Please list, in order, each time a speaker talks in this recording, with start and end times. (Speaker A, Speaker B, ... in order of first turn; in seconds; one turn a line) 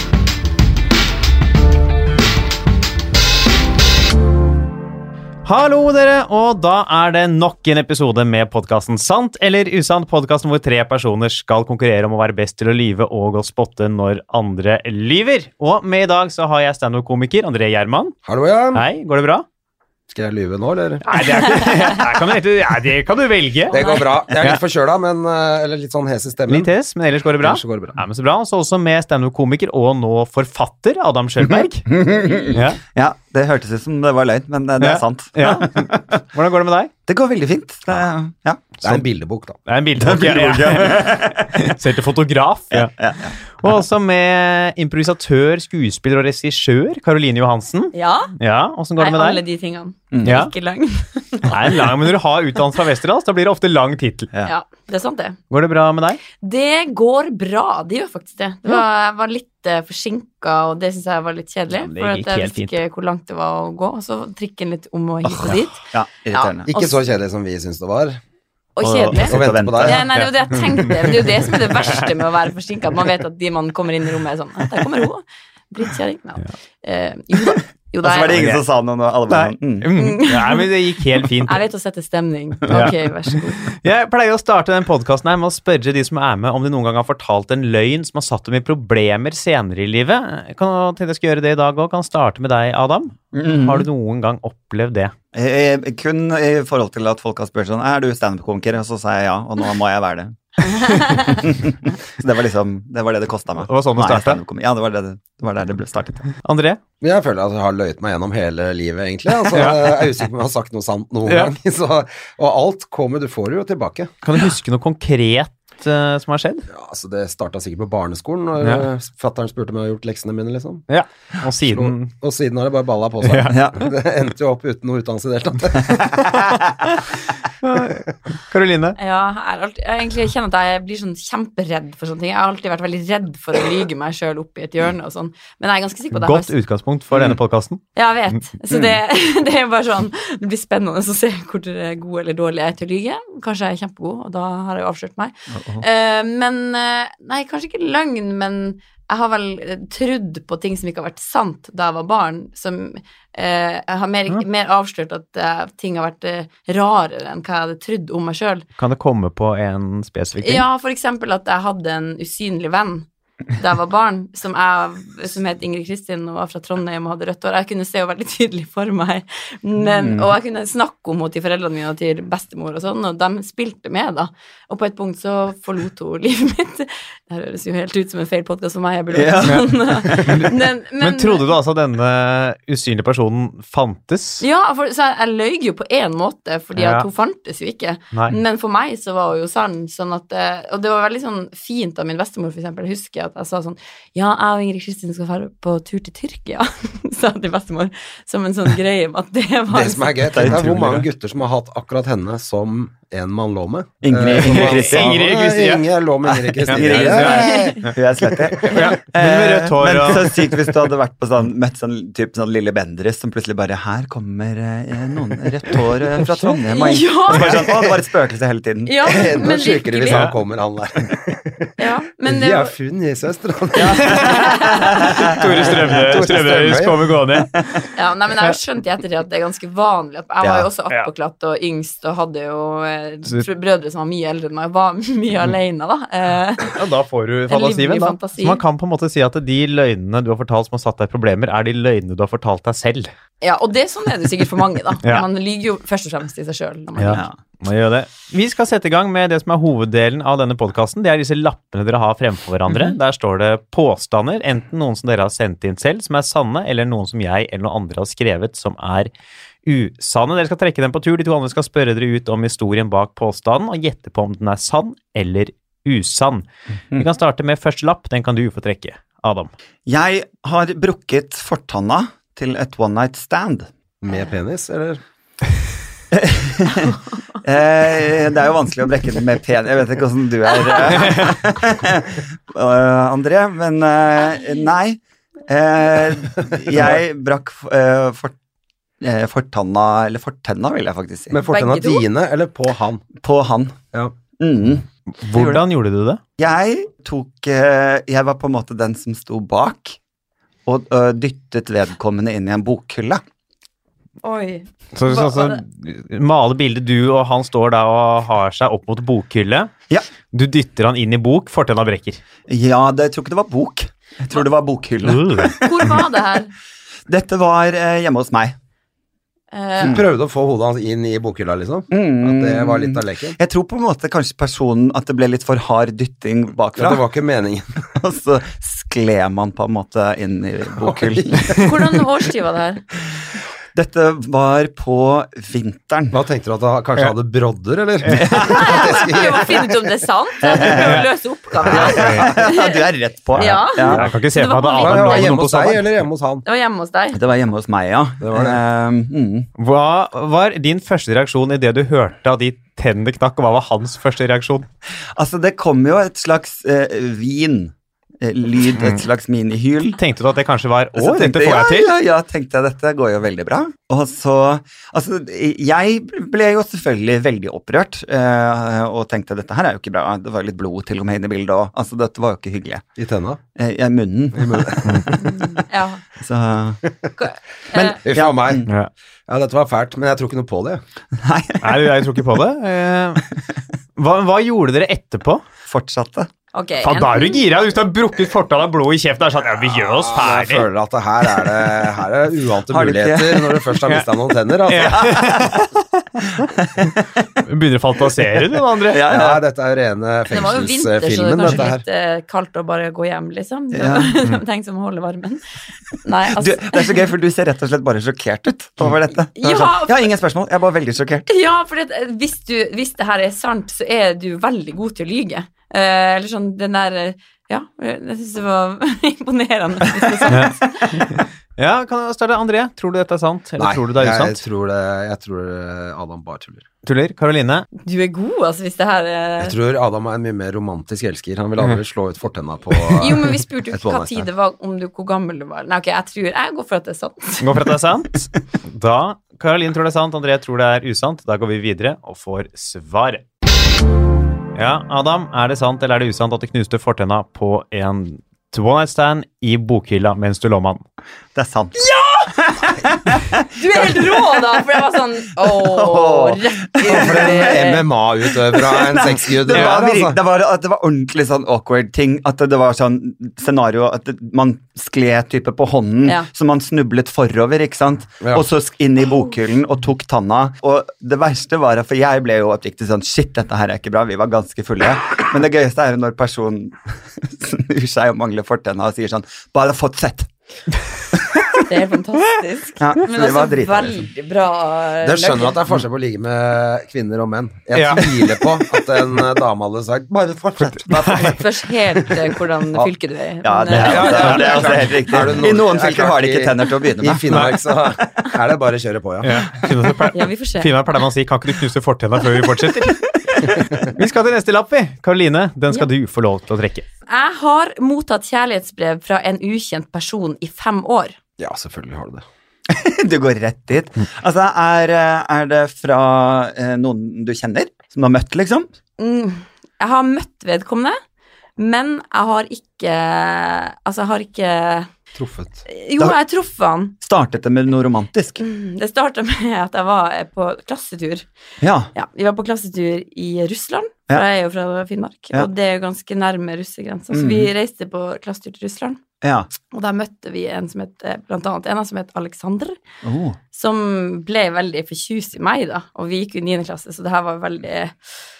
Speaker A: 5.4-18.2
Speaker B: 18.2-18.8
Speaker A: 18.7-19.4
Speaker B: 20.1-21.0
Speaker C: 21.1-22.0
Speaker A: 21.1-23.8
Speaker C: 23.7-24.1
Speaker B: 23.7-26.7
Speaker A: 26.5-31.9
Speaker B: 27.4-28.0
Speaker D: 31.9-36.2
Speaker A: 32.5-32.8
Speaker A: 34.8-36.9
Speaker D: 37.1-38.8
Speaker B: 38.8-39.6
Speaker A: 39.6-42.9
Speaker D: 40.0-41.7
Speaker D: 42.7-43.7
Speaker A: 43.6-49.4
Speaker C: 47.9-48.3
Speaker C: 49.0-51.9
Speaker D: 50.1-50.4
Speaker A: 50.2-50.5
Speaker A: 51.5-54.3
Speaker C: 54.4-55.4
Speaker A: 55.5-56.2
Speaker C: 56.4-67.0
Speaker A: 61.8-62.8
Speaker D: 65.3-66.7
Speaker B: 66.7-68.2
Speaker C: 68.8-78.4
Speaker D: 68.8-70.0
Speaker B: 69.2-70.0
Speaker A: 70.2-71.2
Speaker D: 78.0-79.9
Speaker A: 78.3-78.6
Speaker A: 79.3-81.6
Speaker C: 79.9-80.7
Speaker C: 81.4-83.8
Speaker A: 82.7-83.0
Speaker A: 83.8-95.1
Speaker D: 93.3-93.9
Speaker D: 95.3-106.3
Speaker C: 100.7-101.4
Speaker A: 103.7-104.4
Speaker A: 106.4-106.8
Speaker B: 107.0-114.1
Speaker A: 109.5-110.0
Speaker A: 111.2-111.5
Speaker A: 114.2-116.7
Speaker B: 116.7-120.8
Speaker A: 120.9-122.1
Speaker B: 121.6-126.3
Speaker A: 123.2-123.6
Speaker D: 123.5-123.9
Speaker D: 125.8-126.8
Speaker A: 127.6-129.0
Speaker C: 129.0-136.5
Speaker A: 136.1-137.8
Speaker C: 137.9-158.6
Speaker D: 138.7-139.0
Speaker D: 145.5-145.8
Speaker A: 158.8-160.7
Speaker C: 160.4-181.4
Speaker D: 169.9-170.3
Speaker D: 179.1-180.3
Speaker A: 180.2-184.4
Speaker C: 184.4-200.5
Speaker A: 186.7-187.1
Speaker A: 188.1-188.4
Speaker B: 199.7-207.7
Speaker D: 200.3-201.1
Speaker D: 204.0-205.2
Speaker A: 204.2-205.9
Speaker D: 206.2-219.1
Speaker A: 206.6-207.9
Speaker C: 206.9-207.9
Speaker A: 208.7-210.7
Speaker C: 216.7-217.6
Speaker A: 217.3-217.9
Speaker C: 218.8-220.3
Speaker B: 219.0-221.7
Speaker C: 221.8-222.7
Speaker B: 222.2-224.4
Speaker D: 223.7-225.4
Speaker C: 223.8-225.2
Speaker A: 225.0-227.6
Speaker B: 225.4-227.1
Speaker C: 227.9-236.8
Speaker D: 230.4-230.7
Speaker A: 236.7-243.1
Speaker C: 237.5-238.6
Speaker C: 243.4-247.2
Speaker A: 247.0-259.1
Speaker D: 252.7-252.9
Speaker A: 259.6-269.5
Speaker D: 269.9-273.7
Speaker B: 274.0-275.0
Speaker D: 276.1-288.3
Speaker D: 289.0-291.4
Speaker B: 291.3-293.0
Speaker C: 291.4-292.0
Speaker D: 293.2-293.8
Speaker D: 294.4-295.6
Speaker A: 295.2-296.2
Speaker D: 296.4-300.0
Speaker D: 300.6-303.2
Speaker C: 304.2-305.6
Speaker A: 304.9-309.7
Speaker A: 310.3-312.2
Speaker D: 312.5-316.0
Speaker A: 315.0-315.5
Speaker C: 315.6-316.5
Speaker D: 317.1-318.5
Speaker C: 319.5-320.0
Speaker D: 319.8-320.1
Speaker B: 319.9-323.4
Speaker D: 321.9-327.0
Speaker B: 326.8-327.8
Speaker D: 327.9-331.7
Speaker B: 330.8-331.8
Speaker C: 331.6-332.8
Speaker D: 333.7-336.2
Speaker B: 336.1-339.8
Speaker A: 338.1-338.5
Speaker C: 338.4-345.4
Speaker D: 340.4-341.1
Speaker A: 340.7-341.1
Speaker D: 341.6-344.1
Speaker A: 341.7-342.3
Speaker A: 343.4-346.0
Speaker B: 344.8-346.4
Speaker C: 346.4-347.2
Speaker D: 347.1-349.5
Speaker B: 348.2-348.6
Speaker A: 349.6-354.6
Speaker D: 355.1-360.0
Speaker A: 359.9-361.9
Speaker D: 360.9-372.8
Speaker B: 373.0-373.4
Speaker D: 373.6-375.6
Speaker B: 374.3-375.0
Speaker C: 375.2-376.0
Speaker D: 376.2-376.8
Speaker C: 377.2-378.0
Speaker D: 377.7-378.7
Speaker B: 378.0-378.7
Speaker B: 379.3-380.8
Speaker D: 381.1-381.9
Speaker A: 381.6-383.2
Speaker A: 384.0-385.4
Speaker D: 385.6-386.3
Speaker C: 386.5-387.4
Speaker A: 386.8-390.7
Speaker B: 390.0-395.1
Speaker D: 392.7-393.6
Speaker A: 393.8-394.1
Speaker A: 394.7-396.5
Speaker D: 394.9-397.4
Speaker A: 397.4-399.1
Speaker D: 398.8-399.4
Speaker B: 399.1-401.8
Speaker C: 400.3-405.4
Speaker D: 403.7-404.1
Speaker C: 406.0-407.0
Speaker D: 406.3-411.3
Speaker C: 409.3-410.1
Speaker C: 411.2-421.1
Speaker A: 420.3-424.4
Speaker B: 423.6-426.6
Speaker A: 426.8-427.7
Speaker C: 427.8-429.5
Speaker B: 429.4-434.2
Speaker C: 433.0-437.5
Speaker A: 437.4-443.2
Speaker A: 444.5-450.8
Speaker D: 451.3-454.6
Speaker C: 451.8-452.3
Speaker C: 453.5-457.8
Speaker D: 455.4-457.7
Speaker B: 456.9-460.2
Speaker D: 458.5-480.3
Speaker A: 459.5-459.8
Speaker D: 481.1-481.4
Speaker C: 481.6-485.6
Speaker D: 482.8-484.1
Speaker B: 485.0-490.8
Speaker A: 487.7-488.6
Speaker D: 490.6-491.4
Speaker A: 490.8-491.4
Speaker C: 491.1-494.7
Speaker D: 493.4-497.6
Speaker A: 493.7-494.5
Speaker B: 493.7-499.6
Speaker A: 495.1-495.4
Speaker A: 497.3-497.6
Speaker A: 499.2-506.9
Speaker C: 500.1-500.7
Speaker C: 507.1-511.1
Speaker B: 511.4-512.2
Speaker D: 512.7-518.7
Speaker C: 519.0-521.0
Speaker C: 521.6-524.9
Speaker B: 525.1-525.6
Speaker C: 525.6-526.9
Speaker D: 527.0-528.4
Speaker C: 528.4-531.3
Speaker D: 531.6-531.9
Speaker C: 531.9-539.0
Speaker D: 537.1-537.5
Speaker D: 539.2-539.5
Speaker C: 539.7-542.8
Speaker D: 543.0-543.4
Speaker C: 543.5-547.9